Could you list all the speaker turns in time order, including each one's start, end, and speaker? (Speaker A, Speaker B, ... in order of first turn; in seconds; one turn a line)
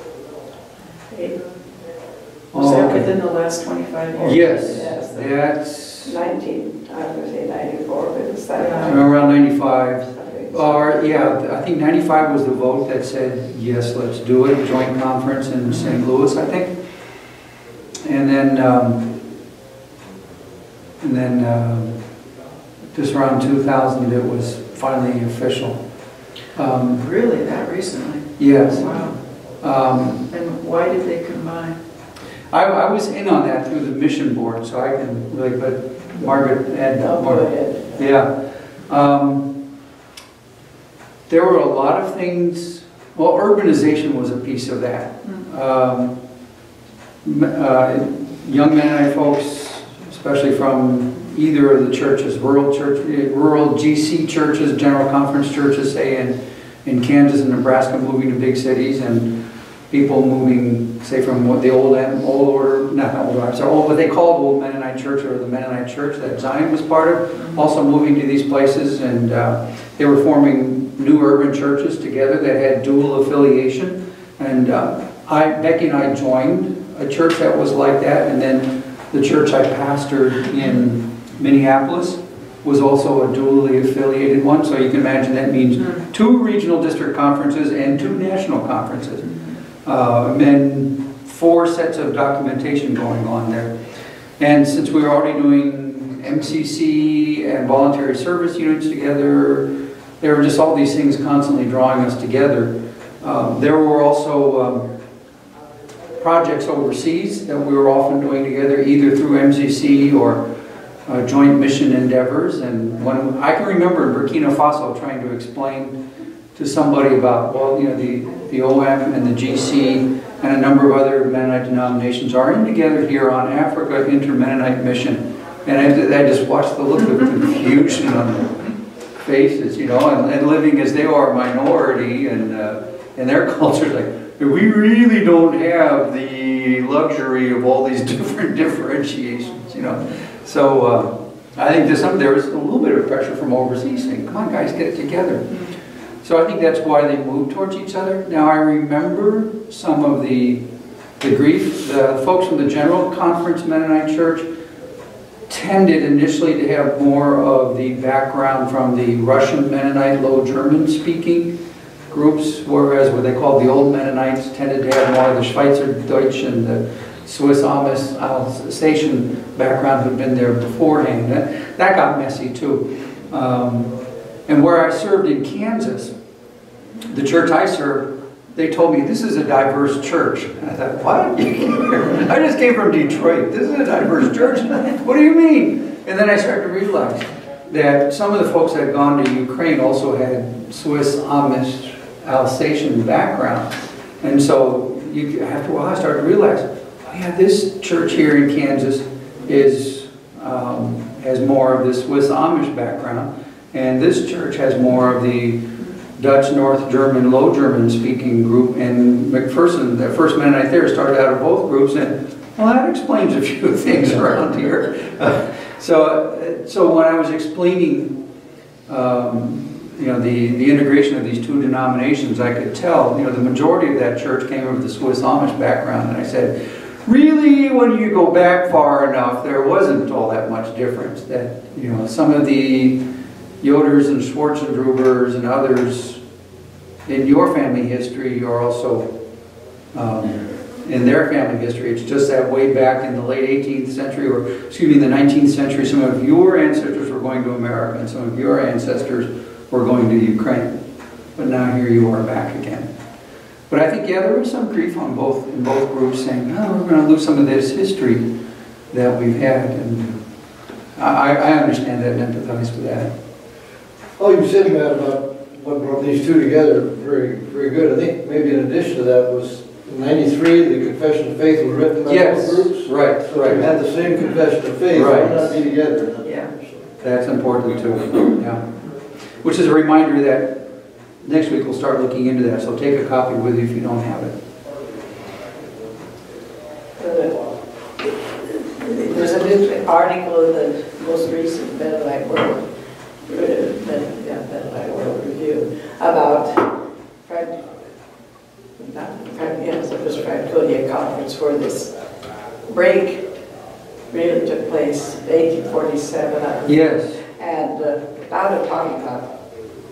Speaker A: 1.1-1.4
Speaker B: 2.5-3.1
Speaker C: 2.5-4.9
Speaker B: 4.2-6.1
Speaker A: 4.7-5.3
Speaker A: 6.0-9.1
Speaker C: 8.6-9.0
Speaker B: 8.8-16.7
Speaker A: 10.1-10.9
Speaker C: 15.7-16.0
Speaker B: 18.0-19.0
Speaker B: 21.0-22.0
Speaker B: 22.9-25.8
Speaker B: 26.5-27.0
Speaker C: 26.9-29.2
Speaker B: 28.4-29.0
Speaker B: 29.6-30.2
Speaker C: 30.3-31.8
Speaker B: 32.5-38.3
Speaker A: 37.0-37.9
Speaker B: 38.9-39.5
Speaker B: 41.3-46.1
Speaker B: 47.2-59.3
Speaker B: 59.9-89.3
Speaker B: 89.8-93.7
Speaker B: 94.4-99.7
Speaker B: 100.2-104.9
Speaker B: 106.2-110.4
Speaker B: 111.1-116.0
Speaker B: 116.5-128.6
Speaker B: 129.2-145.5
Speaker B: 146.2-150.6
Speaker B: 151.2-154.5
Speaker B: 155.5-161.5
Speaker B: 162.1-173.9
Speaker B: 174.5-176.1
Speaker B: 177.1-205.6
Speaker B: 206.2-218.1
Speaker B: 218.9-233.0
Speaker B: 233.6-236.2
Speaker B: 237.1-239.1
Speaker B: 239.9-250.8
Speaker B: 251.4-252.9
Speaker B: 253.7-258.2
Speaker B: 258.9-260.2
Speaker B: 260.9-263.1
Speaker D: 264.2-276.2
Speaker B: 272.1-273.7
Speaker B: 274.9-275.6
Speaker C: 276.2-276.5
Speaker B: 277.0-278.6
Speaker B: 279.4-280.6
Speaker B: 281.2-284.3
Speaker A: 287.0-287.5
Speaker A: 288.0-292.6
Speaker A: 293.2-296.7
Speaker A: 297.2-297.7
Speaker A: 298.8-301.9
Speaker A: 302.7-303.3
Speaker A: 304.1-309.4
Speaker B: 306.6-307.2